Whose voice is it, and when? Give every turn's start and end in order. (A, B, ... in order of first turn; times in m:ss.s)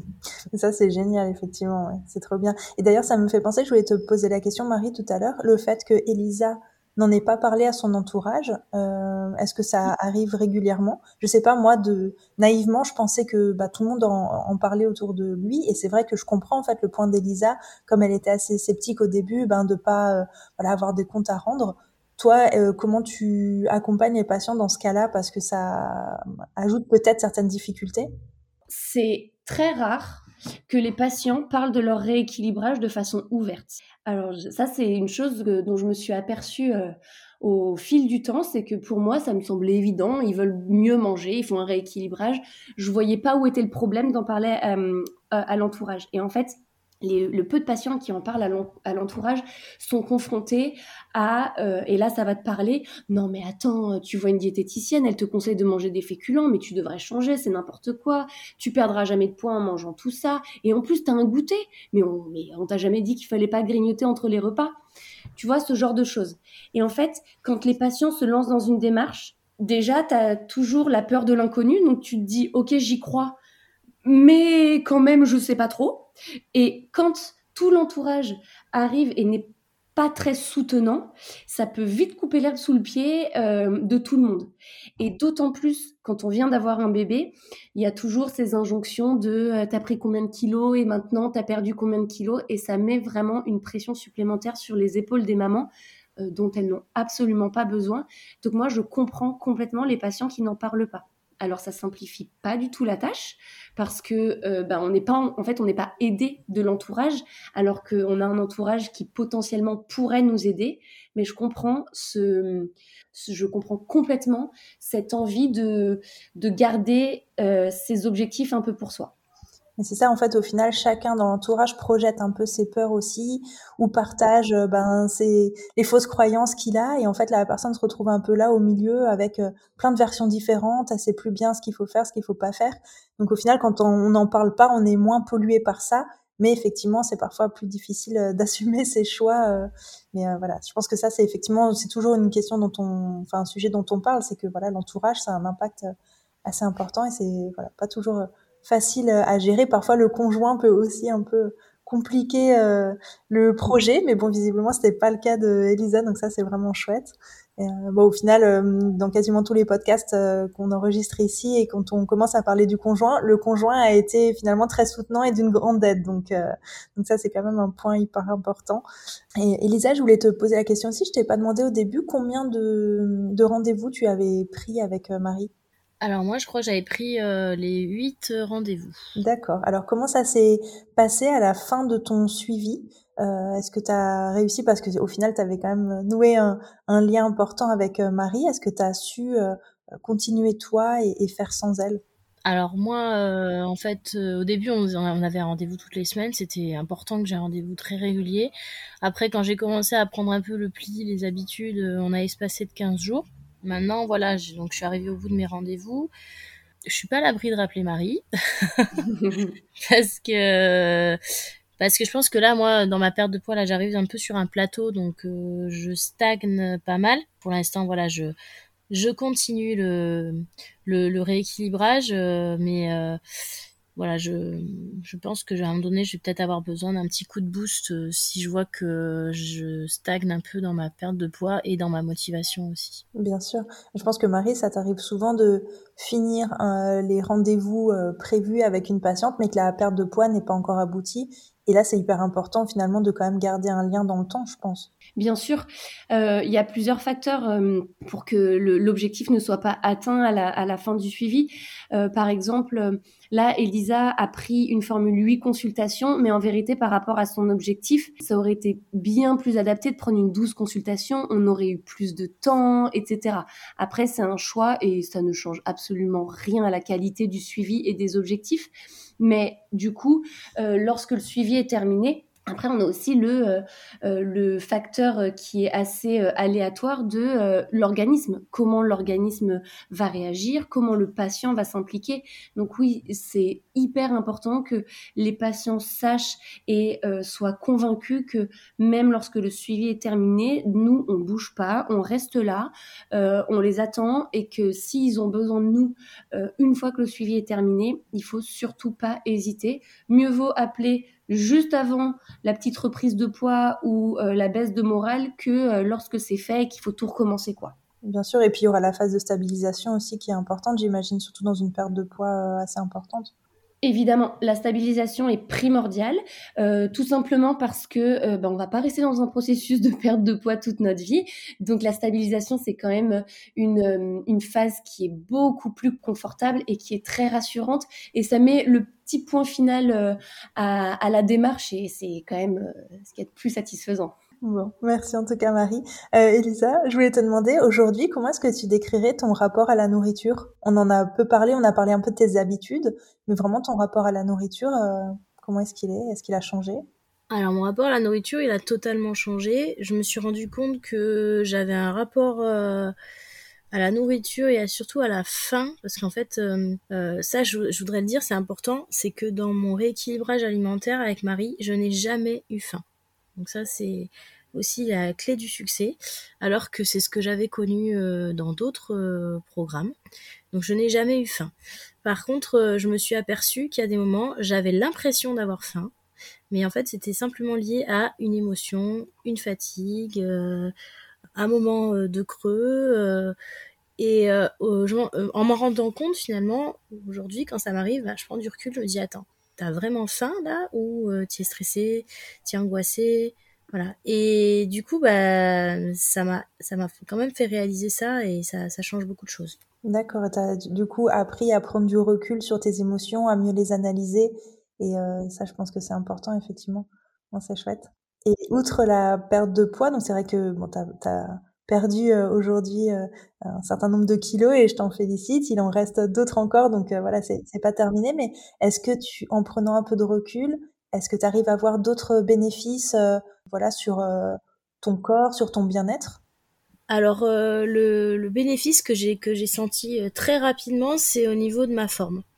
0:00.5-0:28.1 A
0:28.7-1:04.7 B
1:05.4-1:13.4 B
1:14.0-1:59.1 B
1:59.8-2:25.9 A
2:26.4-2:48.8 A
2:49.4-2:55.5 A
2:56.0-2:59.0 C
2:59.2-3:12.0 A
3:12.4-3:26.1 C
3:26.9-3:29.1 C
3:29.1-3:29.5 B
3:29.8-3:31.2 C
3:31.8-3:38.3 C
3:38.9-3:43.2 C
3:44.0-3:53.0 C
3:53.2-4:04.9 A
4:05.2-5:07.8 B
5:08.0-5:13.3 A
5:13.8-5:34.2 B
5:34.4-5:46.8 A
5:47.3-5:53.0 C
5:53.7-6:02.8 C
6:03.4-6:10.0 C
6:10.5-6:11.5 C
6:12.0-6:15.9 C
6:16.5-6:20.7 C
6:21.4-6:23.4 C
6:24.0-6:39.6 C
6:39.9-7:06.2 A
7:06.9-7:12.2 C